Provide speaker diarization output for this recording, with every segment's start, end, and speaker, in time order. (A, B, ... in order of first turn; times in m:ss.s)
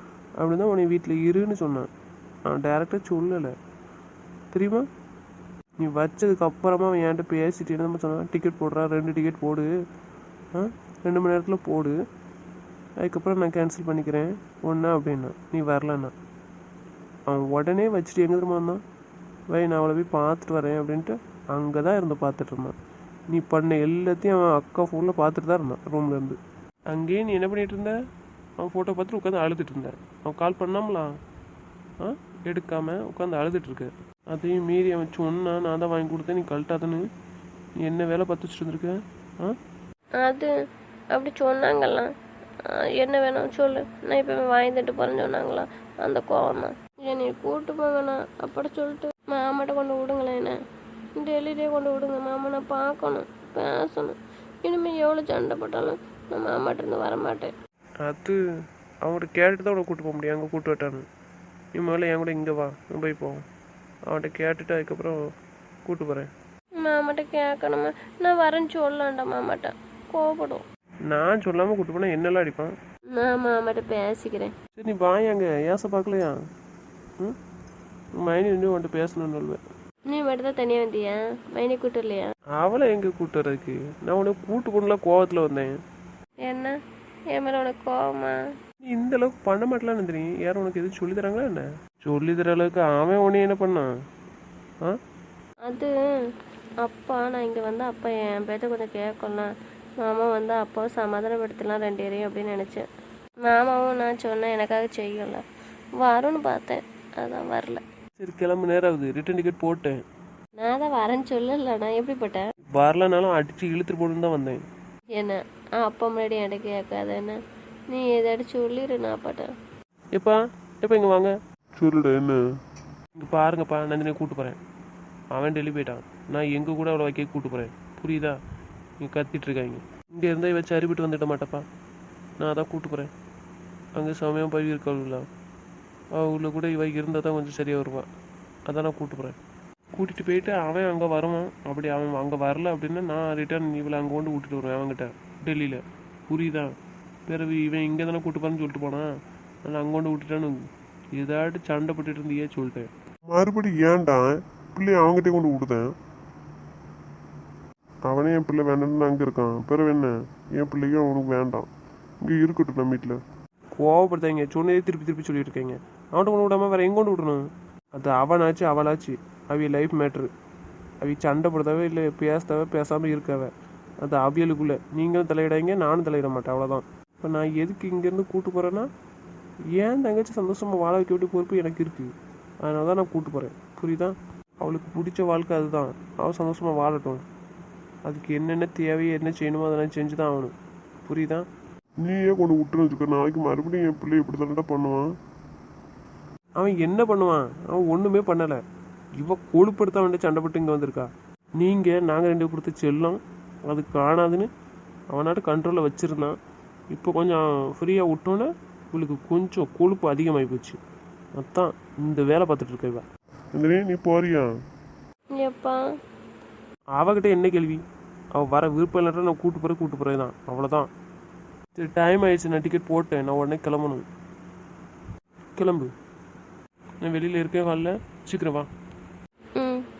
0:00.4-0:01.9 A
0:02.5-0:03.5 A
0:04.5-0:04.8 A
0:05.8-0:09.7 A
0:10.5-0:12.0 A
0:13.0-0:16.1 A
0:17.3-0:18.8 A
0:19.5-0:22.7 A
0:23.3-0:26.4 A
0:26.9-0:28.0 A
0:28.6-0:31.1 A
0:32.0-0:37.0 A
0:37.8-0:39.6 A
0:40.2-0:40.5 B
0:41.1-0:42.1 B
0:42.6-0:50.6 B
0:51.2-0:57.5 B
0:58.0-0:58.4 A
0:59.0-1:01.0 A
1:01.8-1:03.4 A
1:04.1-1:05.2 A
1:05.8-1:06.3 A
1:06.8-1:10.6 B
1:11.1-1:12.7 A
1:13.1-1:14.5 B
1:14.8-1:16.4 A
1:18.2-1:19.6 A
1:20.1-1:22.3 B
1:22.6-1:25.8 A
1:26.4-1:26.7 B
1:27.3-1:28.4 B
1:28.8-1:33.9 A
1:35.6-1:35.9 B
1:36.8-1:39.5 B
1:40.0-1:42.9 B
1:43.4-1:45.4 B
1:46.0-1:47.8 B
1:48.2-1:50.0 A
1:50.6-1:52.4 B
1:52.7-1:54.6 A
1:55.2-1:59.5 B
2:00.1-2:01.3 A
2:01.8-2:02.4 C
2:03.2-2:04.6 A
2:05.3-2:08.4 A
2:09.0-2:11.6 A
2:12.4-2:13.1 A
2:14.0-2:15.2 A
2:16.2-2:18.1 A
2:18.7-2:19.4 A
2:20.0-2:26.7 A
2:27.3-2:29.1 A
2:29.7-2:30.6 A
2:31.2-2:32.9 A
2:33.3-2:35.9 C
2:38.1-2:41.7 C
2:42.2-2:43.2 C
2:43.8-2:50.3 A
2:51.0-2:53.5 A
2:54.0-2:58.9 A
2:59.8-3:02.1 A
3:02.6-3:07.2 A
3:08.0-3:10.5 A
3:11.0-3:11.4 A
3:12.0-3:15.1 C
3:16.6-3:18.6 A
3:19.2-3:24.5 A
3:25.1-3:26.3 A
3:26.9-3:30.8 A
3:31.4-3:33.0 A
3:33.5-3:34.5 C
3:35.4-3:35.8 B
3:37.0-3:37.8 A
3:38.3-3:40.9 A
3:41.8-3:44.0 A
3:45.6-3:45.9 A
3:47.0-3:48.7 A
3:49.6-3:49.8 B